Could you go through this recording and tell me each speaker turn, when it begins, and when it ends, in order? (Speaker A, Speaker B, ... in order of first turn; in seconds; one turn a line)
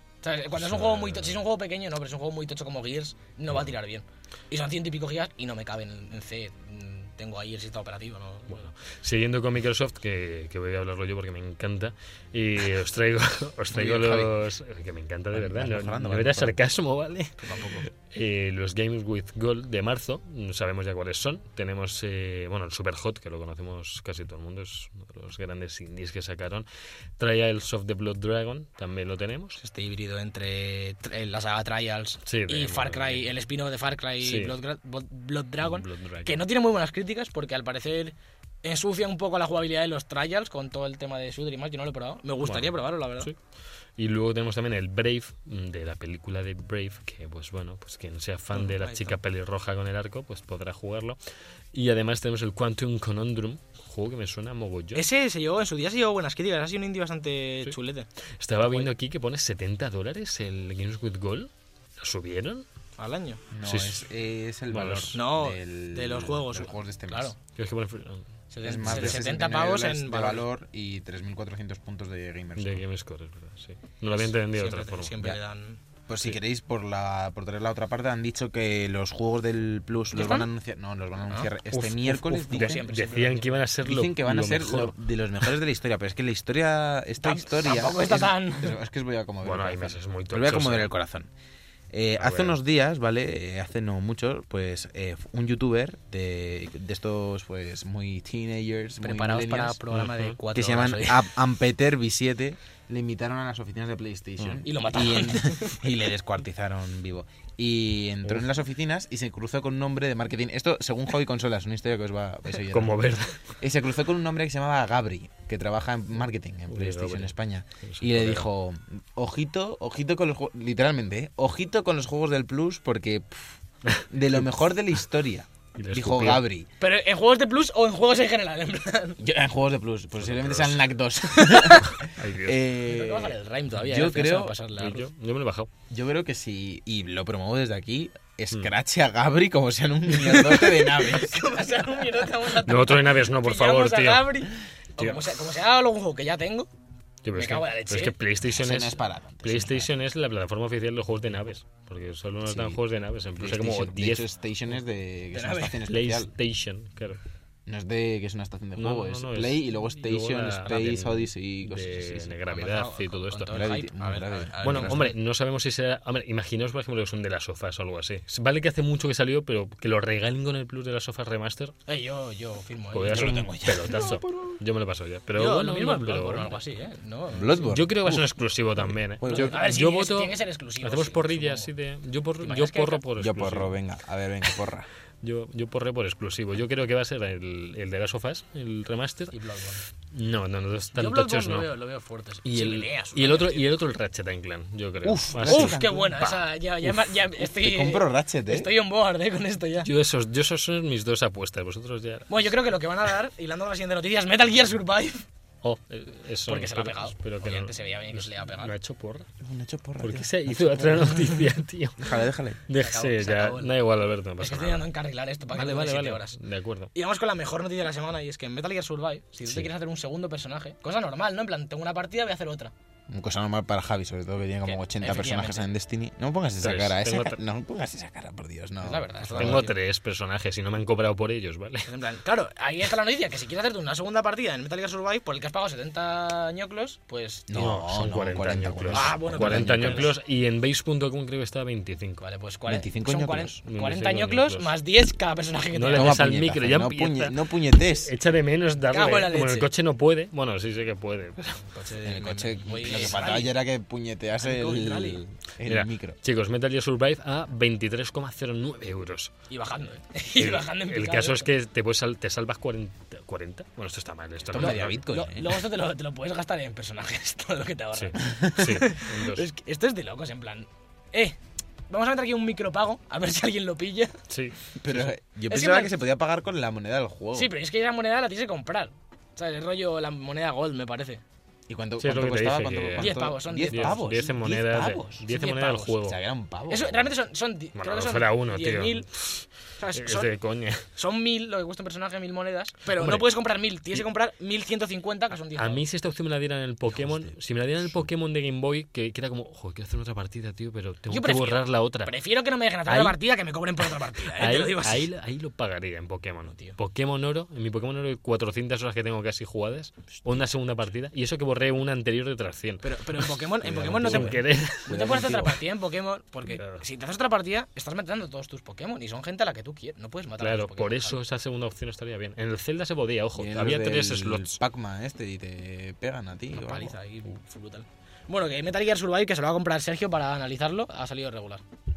Speaker A: 0.2-8.6
Speaker B: 0.6-1.4
Speaker B: 8.5-26.7
Speaker C: 13.7-14.4
Speaker C: 15.3-16.6
Speaker A: 17.4-17.9
Speaker B: 27.2-29.6
Speaker A: 29.6-43.3
Speaker B: 32.2-33.3
Speaker B: 34.2-34.5
Speaker B: 35.6-36.4
Speaker B: 42.4-43.4
Speaker B: 44.0-51.2
Speaker A: 48.5-49.1
Speaker B: 51.7-55.0
Speaker A: 54.9-58.9
Speaker B: 58.4-62.6
Speaker A: 63.0-63.4
Speaker C: 63.5-67.3
Speaker B: 63.6-64.0
Speaker B: 64.7-65.2
Speaker A: 65.1-67.4
Speaker B: 67.5-68.3
Speaker A: 68.5-70.4
Speaker C: 68.6-72.8
Speaker B: 68.8-69.2
Speaker B: 72.6-75.3
Speaker A: 74.1-75.8
Speaker C: 76.1-82.8
Speaker A: 80.1-80.5
Speaker B: 81.7-85.0
Speaker A: 82.5-83.6
Speaker C: 83.8-91.3
Speaker A: 87.2-88.8
Speaker B: 89.4-90.9
Speaker C: 91.9-99.8
Speaker B: 92.2-92.5
Speaker A: 99.0-101.3
Speaker B: 99.9-100.3
Speaker C: 100.5-113.0
Speaker B: 104.4-104.6
Speaker A: 104.6-105.9
Speaker B: 108.2-108.5
Speaker B: 112.7-113.5
Speaker C: 113.6-123.5
Speaker B: 116.7-117.3
Speaker B: 117.8-118.5
Speaker C: 124.1-126.7
Speaker B: 125.8-126.4
Speaker A: 126.8-129.2
Speaker C: 129.2-134.5
Speaker B: 130.2-130.8
Speaker B: 131.4-132.6
Speaker A: 132.8-135.1
Speaker B: 134.8-135.7
Speaker C: 135.9-141.5
Speaker A: 140.2-146.7
Speaker B: 142.5-145.3
Speaker B: 147.2-154.3
Speaker A: 147.3-148.2
Speaker C: 148.4-149.9
Speaker C: 152.4-152.8
Speaker C: 153.4-156.3
Speaker A: 155.3-155.8
Speaker B: 155.8-157.2
Speaker C: 157.7-162.3
Speaker B: 158.8-163.6
Speaker A: 162.5-165.1
Speaker C: 163.5-165.1
Speaker B: 164.6-171.7
Speaker A: 171.9-173.9
Speaker B: 172.9-176.5
Speaker C: 173.1-174.6
Speaker A: 175.3-177.7
Speaker C: 177.3-179.6
Speaker B: 177.7-183.7
Speaker A: 179.3-181.7
Speaker A: 182.4-183.0
Speaker C: 183.2-184.9
Speaker B: 185.2-189.3
Speaker A: 189.3-189.8
Speaker B: 190.1-191.7
Speaker A: 190.9-193.7
Speaker B: 192.4-196.4
Speaker C: 195.0-196.2
Speaker A: 195.4-199.9
Speaker C: 197.3-198.7
Speaker B: 199.8-202.3
Speaker A: 202.3-205.2
Speaker B: 205.6-209.3
Speaker A: 206.5-208.7
Speaker C: 209.4-211.4
Speaker B: 210.0-214.9
Speaker C: 212.0-212.6
Speaker A: 212.8-213.8
Speaker A: 214.4-216.4
Speaker B: 215.5-216.9
Speaker A: 216.9-222.7
Speaker C: 223.1-229.7
Speaker A: 224.6-225.7
Speaker B: 226.6-227.4
Speaker A: 228.8-229.8
Speaker B: 229.3-231.9
Speaker A: 231.9-237.6
Speaker C: 237.5-240.1
Speaker B: 237.5-242.2
Speaker A: 238.9-240.1
Speaker A: 242.2-246.2
Speaker C: 242.7-243.6
Speaker B: 243.7-244.7
Speaker B: 245.7-251.7
Speaker C: 245.9-248.1
Speaker A: 248.9-249.7
Speaker A: 251.6-253.5
Speaker C: 252.0-256.2
Speaker A: 254.4-255.2
Speaker B: 255.6-259.3
Speaker A: 259.5-261.5
Speaker B: 260.4-265.0
Speaker C: 264.5-265.5
Speaker A: 264.6-271.4
Speaker B: 267.9-269.4
Speaker C: 268.2-268.6
Speaker A: 271.9-274.2
Speaker B: 274.3-274.6
Speaker C: 274.8-277.5
Speaker A: 275.4-275.9
Speaker A: 277.3-281.2
Speaker C: 281.7-285.2
Speaker B: 282.0-286.2
Speaker A: 283.0-284.1
Speaker A: 285.3-286.0
Speaker C: 286.0-287.1
Speaker A: 286.7-289.1
Speaker B: 287.8-290.9
Speaker A: 289.8-290.3
Speaker A: 290.9-295.8
Speaker B: 292.9-293.3
Speaker B: 295.6-302.1
Speaker C: 296.9-297.4
Speaker A: 301.1-305.1
Speaker B: 302.9-303.2
Speaker B: 303.8-315.4
Speaker A: 306.5-306.8
Speaker A: 312.8-321.2
Speaker C: 313.6-315.6
Speaker B: 316.5-316.8
Speaker B: 320.4-324.6
Speaker C: 323.3-326.9
Speaker A: 326.5-331.6